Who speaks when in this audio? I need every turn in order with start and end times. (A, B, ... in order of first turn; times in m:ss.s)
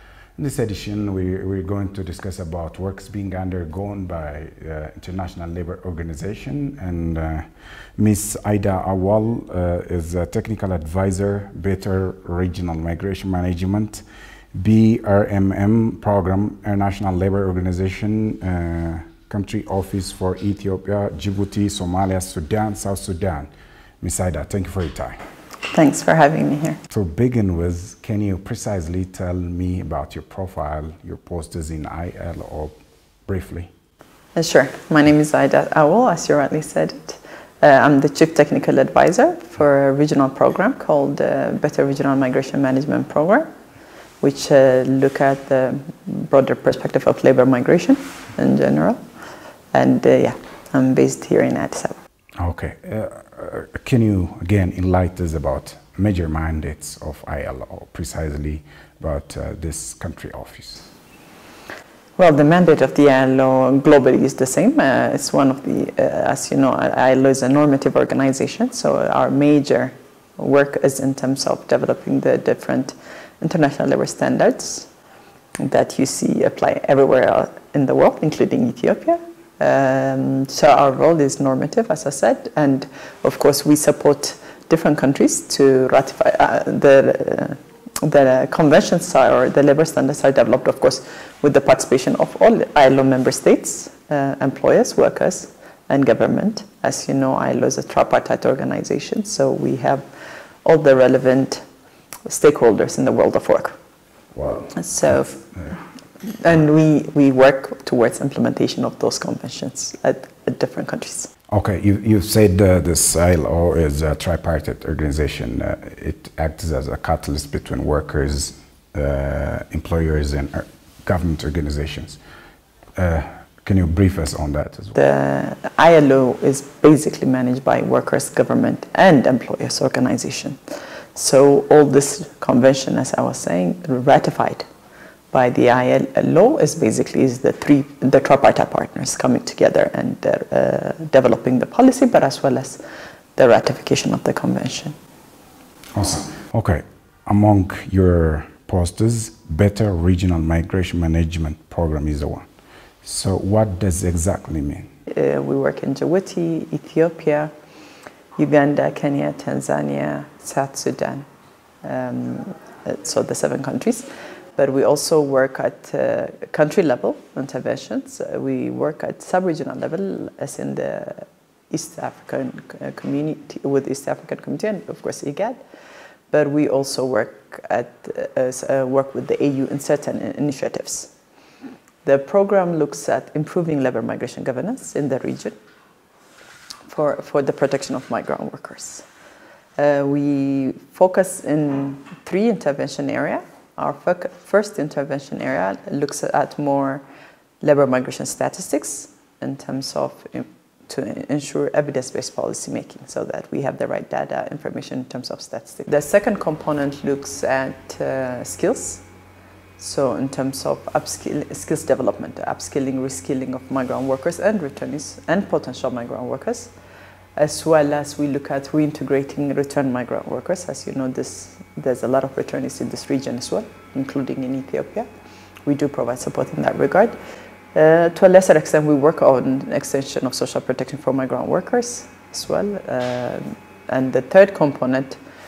0:00.4-0:23.5 A
0:24.0-0:25.2 A
0:25.7-0:26.8 B
0:26.9-0:32.7 A
0:33.3-0:33.7 A
0:34.3-0:43.5 B
0:44.2-0:49.0 B
0:49.7-0:52.0 B
0:52.4-1:00.9 A
1:02.2-1:14.9 B
1:15.6-1:40.0 B
1:40.6-1:41.6 B
1:42.2-1:43.8 B
1:44.3-1:45.8 A
1:44.7-1:45.4 B
1:46.2-1:51.3 B
1:51.5-2:02.2 A
2:03.0-2:05.0 A
2:04.9-2:10.6 B
2:11.1-2:14.7 B
2:15.3-2:22.8 B
2:23.4-2:25.0 B
2:25.9-2:32.5 A
2:33.0-2:34.9 A
2:35.1-2:37.5 B
2:38.4-2:41.3 B
2:41.8-2:55.6 B
2:56.3-3:01.1 B
3:02.0-3:05.6 B
3:06.9-3:09.0 B
3:09.8-3:17.0 B
3:17.6-3:29.0 B
3:29.8-3:36.7 B
3:37.4-3:45.1 B
3:45.7-3:47.2 B
3:47.7-3:55.2 B